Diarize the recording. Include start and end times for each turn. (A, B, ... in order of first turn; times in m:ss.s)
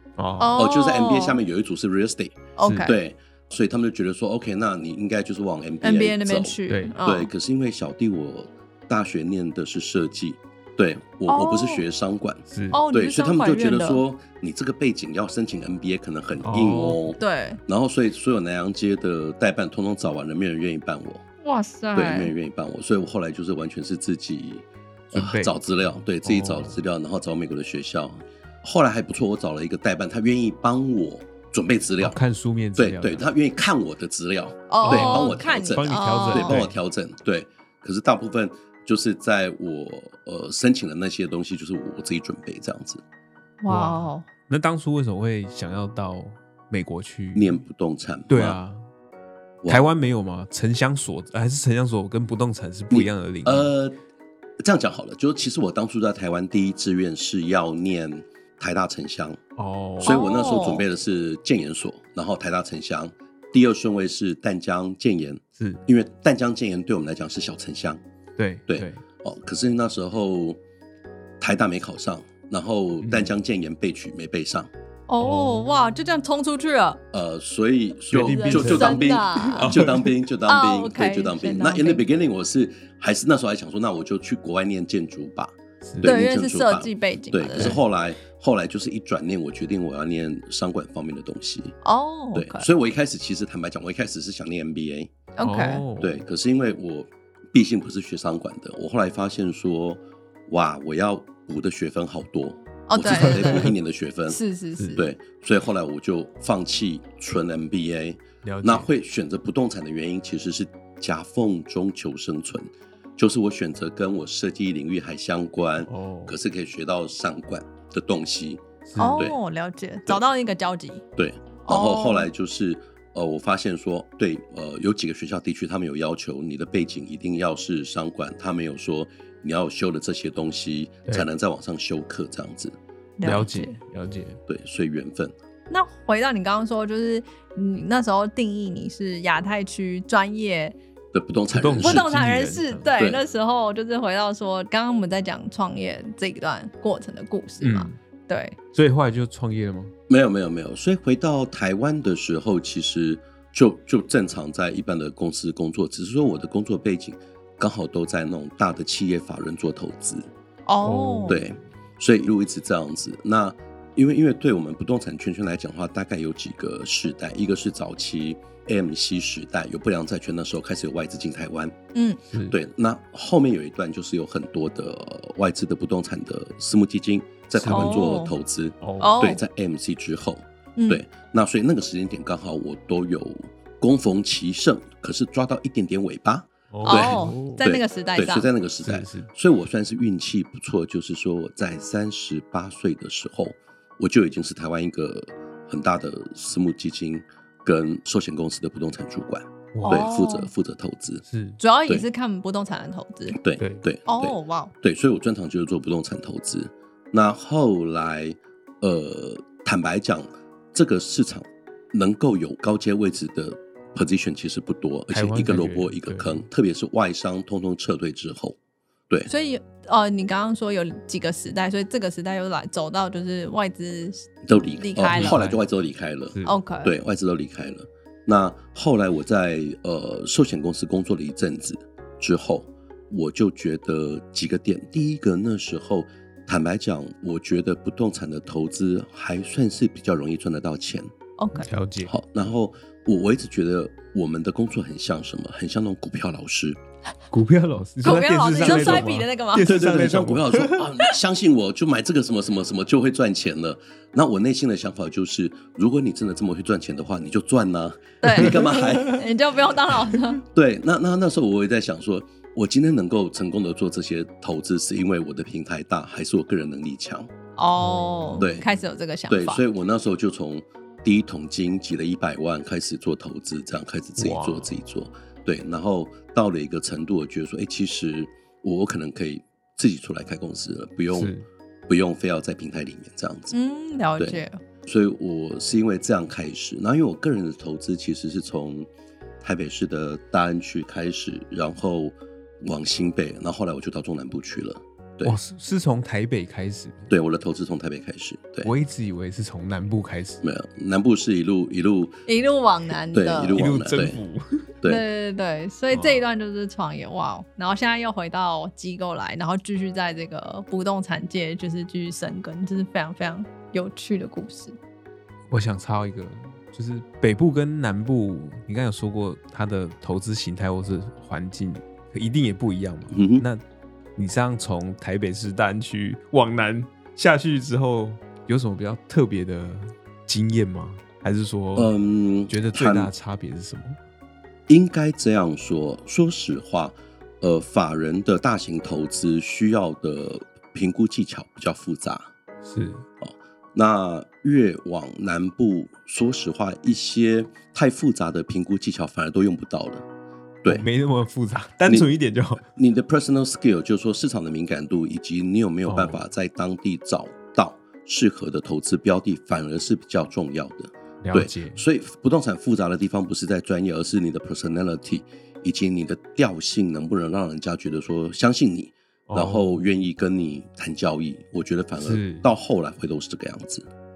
0:00.2-0:00.6 A
0:00.4-0:01.4 B
0:00.6-0:21.2 C
0:02.6-0:03.0 B
0:02.6-0:02.9 A
0:05.8-0:07.3 B
0:06.7-0:07.0 A
0:11.3-0:11.8 B
0:12.5-0:12.8 A
0:12.7-0:14.0 B
0:16.4-0:17.0 A
0:17.2-0:17.6 B
0:21.4-0:22.3 B
0:22.0-0:32.2 C
0:25.1-0:25.6 A
0:26.2-0:26.8 A
0:32.0-0:33.2 A
0:32.8-0:43.0 C
0:34.7-0:36.6 B
0:34.8-0:36.8 A
0:43.6-0:44.3 B
0:43.7-0:47.6 A
0:47.4-0:48.6 C
0:48.3-0:48.8 A
0:49.7-0:53.7 A
0:52.9-0:54.0 C
0:54.6-0:59.4 C
0:59.6-1:00.3 A
1:00.0-1:00.8 B
1:00.0-1:08.0 C
1:08.4-1:09.0 A
1:08.7-1:10.6 C
1:11.4-1:14.7 C
1:13.0-1:13.4 A
1:15.1-1:17.0 B
1:15.2-1:15.8 A
1:17.1-1:31.8 C
1:18.1-1:20.1 A
1:18.2-1:19.9 B
1:20.5-1:22.0 B
1:25.8-1:26.1 A
1:26.0-1:27.8 B
1:31.8-1:32.7 B
1:32.4-1:35.1 C
1:35.4-1:35.8 B
1:35.4-1:36.2 A
1:36.0-1:44.4 C
1:42.9-1:43.7 B
1:43.1-1:43.7 A
1:44.3-1:45.1 B
1:45.0-1:59.4 C
1:48.4-1:48.9 A
1:55.9-1:56.4 A
1:58.9-1:59.3 A
1:59.0-2:01.0 B
2:01.2-2:12.8 C
2:01.7-2:02.3 B
2:13.2-2:13.8 B
2:13.2-2:14.4 A
2:14.5-2:15.3 C
2:15.7-2:20.8 B
2:21.1-2:22.0 C
2:21.5-2:22.9 A
2:21.8-2:28.6 B
2:23.0-2:23.2 C
2:27.6-2:28.0 A
2:28.7-2:29.9 A
2:30.1-2:40.3 C
2:40.7-2:41.4 B
2:40.8-2:41.6 A
2:41.3-2:51.8 C
2:52.0-2:52.2 B
2:52.5-3:21.2 C
2:57.6-2:58.2 A
2:57.7-2:58.3 B
2:58.8-2:59.2 A
2:59.0-2:59.4 B
3:00.8-3:01.0 B
3:06.7-3:07.6 A
3:06.8-3:08.5 B
3:08.8-3:09.3 A
3:19.7-3:20.1 A
3:19.8-3:20.5 B
3:21.3-3:21.6 A
3:21.6-3:23.4 B
3:23.3-3:38.6 C
3:23.6-3:23.9 A
3:24.1-3:24.7 B
3:35.1-3:36.4 A
3:39.3-3:45.4 B
3:44.4-4:01.1 C
3:45.1-3:45.6 A
3:46.5-3:46.9 B
4:01.4-4:01.7 B
4:01.6-4:02.1 A
4:02.0-4:06.8 C
4:07.3-4:10.9 A
4:08.0-4:09.8 B
4:08.6-4:09.1 C
4:09.6-4:19.2 C
4:18.2-4:20.4 B
4:20.4-4:27.3 C
4:27.6-4:29.6 B
4:27.8-4:28.5 A
4:28.4-4:28.7 C
4:29.3-4:41.3 C
4:34.2-4:34.8 A
4:41.1-4:41.4 A
4:41.9-4:43.6 C
4:43.5-4:44.6 B
4:44.2-4:48.9 C
4:49.4-4:55.4 C
4:55.2-4:57.1 A
4:57.1-4:58.7 C
4:58.6-5:00.4 A
5:00.4-5:02.2 C
5:02.3-5:03.6 B
5:03.1-5:04.2 C
5:03.5-5:04.7 A
5:04.8-5:14.8 B
5:05.9-5:06.2 A
5:15.5-5:23.6 A
5:23.1-5:23.5 C
5:24.2-5:31.9 A
5:31.8-5:33.1 C
5:32.5-5:34.0 A
5:34.7-5:42.3 C
5:42.6-5:43.0 A
5:43.2-5:50.0 C
5:50.7-5:52.7 A
5:51.8-5:52.1 C
5:52.8-6:13.9 C
5:55.9-5:56.2 A
6:01.2-6:01.8 A
6:09.3-6:09.8 A
6:12.0-6:12.5 A